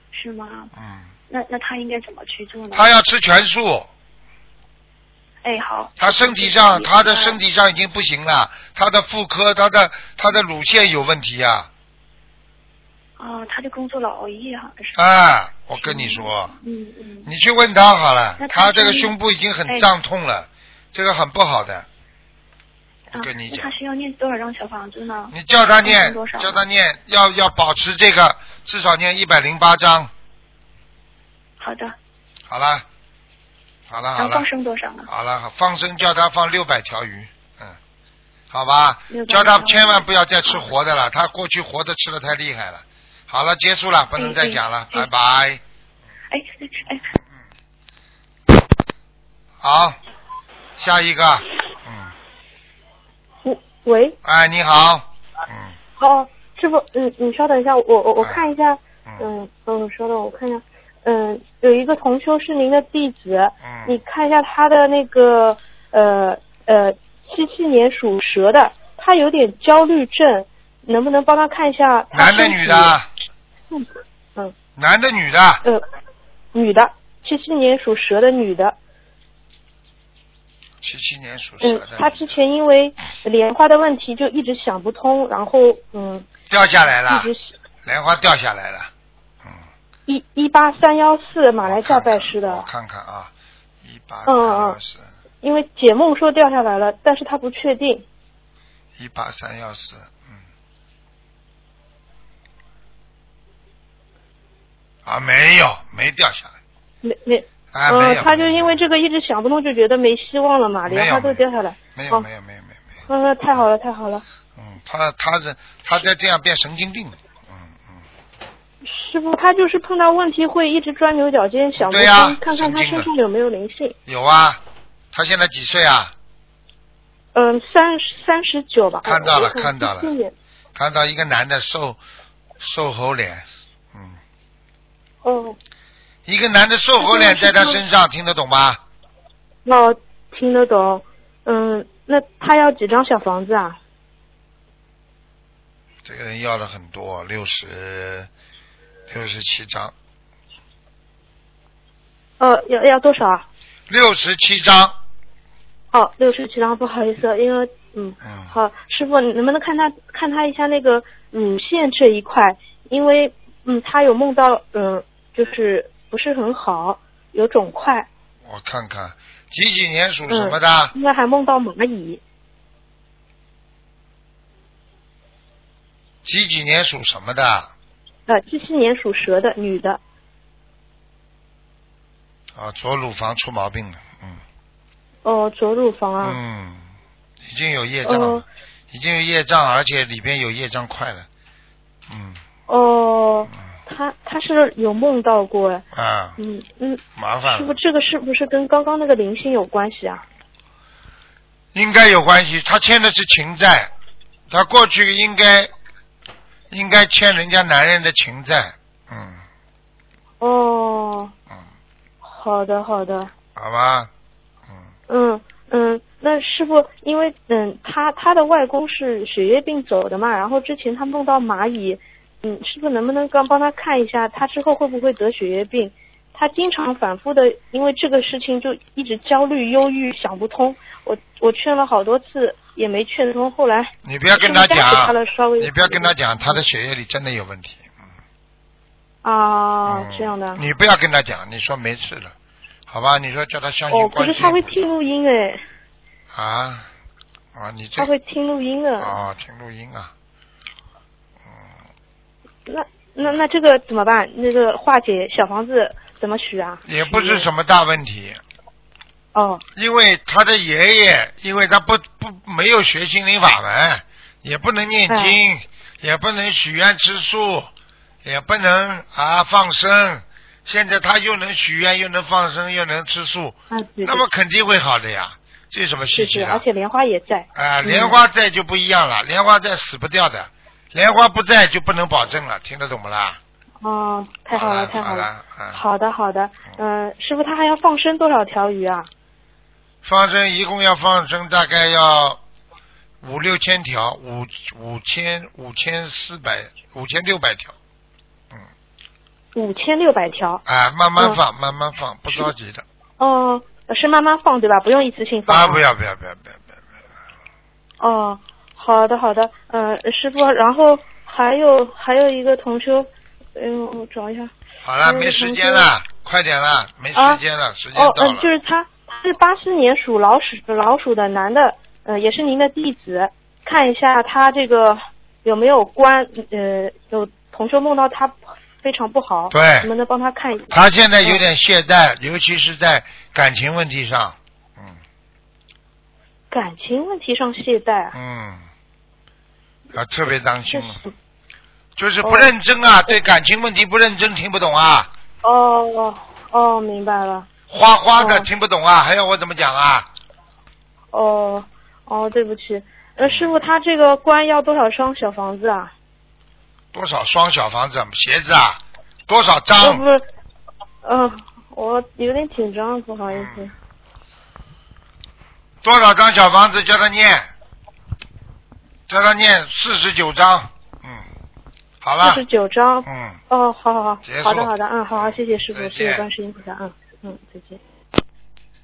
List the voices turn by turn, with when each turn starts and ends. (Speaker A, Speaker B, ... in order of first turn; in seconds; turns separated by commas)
Speaker A: 0.1-0.7, Speaker B: 0.8-1.1, Speaker A: 1.3-2.9, Speaker B: 2.7-3.9, Speaker A: 5.4-7.4, Speaker B: 6.0-11.7, Speaker A: 13.2-15.1, Speaker B: 14.9-16.5, Speaker A: 15.8-17.3, Speaker B: 17.2-21.9, Speaker A: 18.4-19.1, Speaker B: 23.1-23.7, Speaker A: 23.1-26.6, Speaker B: 25.3-30.1, Speaker A: 31.6-32.0, Speaker B: 32.5-32.9, Speaker B: 33.9-34.5, Speaker A: 34.2-35.1, Speaker B: 35.1-37.8, Speaker B: 38.5-45.6, Speaker A: 39.1-40.7, Speaker A: 44.2-45.1, Speaker A: 46.3-47.1, Speaker B: 49.6-50.0, Speaker B: 50.8-52.1, Speaker C: 53.4-54.2, Speaker B: 54.2-55.8, Speaker C: 56.0-73.0, Speaker B: 58.2-58.5, Speaker B: 63.6-64.0, Speaker B: 72.1-73.1, Speaker C: 73.7-74.5, Speaker B: 74.8-75.6, Speaker C: 76.5-78.8, Speaker B: 80.8-82.3, Speaker C: 81.6-86.3, Speaker B: 86.5-87.3, Speaker C: 87.1-87.5, Speaker B: 87.8-88.9, Speaker C: 90.1-92.7, Speaker B: 91.6-93.3, Speaker B: 93.8-95.1, Speaker C: 94.3-94.8, Speaker C: 95.4-98.0, Speaker B: 99.0-100.4, Speaker B: 105.0-106.5, Speaker C: 107.0-112.3, Speaker B: 107.7-108.8, Speaker B: 110.9-111.4, Speaker B: 112.0-112.9, Speaker C: 113.1-114.2, Speaker B: 114.6-118.0, Speaker C: 118.8-124.0, Speaker B: 121.8-123.1, Speaker B: 124.1-124.6, Speaker B: 125.1-126.1, Speaker C: 127.3-130.3, Speaker B: 129.1-130.1, Speaker B: 130.8-132.0, Speaker B: 132.6-134.2, Speaker C: 135.2-135.6, Speaker B: 136.3-138.8, Speaker C: 137.0-137.8, Speaker C: 139.7-143.8, Speaker B: 146.0-148.3, Speaker B: 149.1-149.9, Speaker C: 152.4-153.4, Speaker B: 153.9-155.0, Speaker C: 155.9-168.1, Speaker B: 158.2-158.5, Speaker B: 168.4-170.9, Speaker C: 170.3-172.2, Speaker B: 176.2-177.7, Speaker C: 178.3-180.0, Speaker B: 182.5-184.4, Speaker C: 185.2-186.4, Speaker B: 186.2-186.9, Speaker B: 187.4-191.3, Speaker C: 188.1-188.4, Speaker B: 192.1-192.4, Speaker C: 192.7-195.8, Speaker B: 195.9-196.4, Speaker C: 196.4-200.2, Speaker B: 197.2-197.8, Speaker B: 201.7-203.9, Speaker B: 204.5-205.7, Speaker B: 206.7-209.4, Speaker C: 210.4-211.3, Speaker C: 212.2-213.3, Speaker B: 213.6-214.1, Speaker C: 215.1-236.6, Speaker B: 234.1-238.0, Speaker C: 239.2-240.6, Speaker B: 239.9-242.3, Speaker B: 242.9-244.9, Speaker C: 243.9-245.6, Speaker B: 246.3-246.9, Speaker B: 247.5-248.1, Speaker C: 248.0-249.2, Speaker B: 249.0-250.1, Speaker C: 252.7-257.5, Speaker B: 256.9-258.4, Speaker C: 259.4-259.6, Speaker B: 259.8-267.7, Speaker C: 265.1-265.4, Speaker B: 268.2-276.6, Speaker C: 273.7-274.2, Speaker C: 276.2-278.2, Speaker B: 277.6-283.4, Speaker C: 283.8-289.1, Speaker B: 284.5-285.8, Speaker B: 290.0-292.4, Speaker B: 293.2-297.8, Speaker C: 299.6-300.6, Speaker B: 300.7-302.9, Speaker C: 303.2-305.8, Speaker B: 305.5-306.8, Speaker C: 308.0-314.5, Speaker B: 314.8-318.5, Speaker C: 315.0-315.9, Speaker C: 317.1-317.4, Speaker C: 317.9-331.4, Speaker B: 329.5-329.9, Speaker B: 330.7-335.0, Speaker C: 336.5-338.1, Speaker B: 338.1-338.7, Speaker B: 339.9-341.0, Speaker C: 340.7-341.1, Speaker B: 342.0-345.1, Speaker C: 342.2-342.5, Speaker C: 345.4-347.5, Speaker B: 347.7-350.1, Speaker C: 348.2-348.5, Speaker C: 351.1-355.9, Speaker B: 353.2-353.6, Speaker B: 356.9-360.0, Speaker C: 359.8-360.2, Speaker C: 361.0-363.7, Speaker B: 363.3-363.7, Speaker B: 365.8-367.5, Speaker B: 369.1-371.3, Speaker B: 372.0-372.4, Speaker C: 372.2-377.8, Speaker B: 373.1-373.4, Speaker B: 374.2-376.3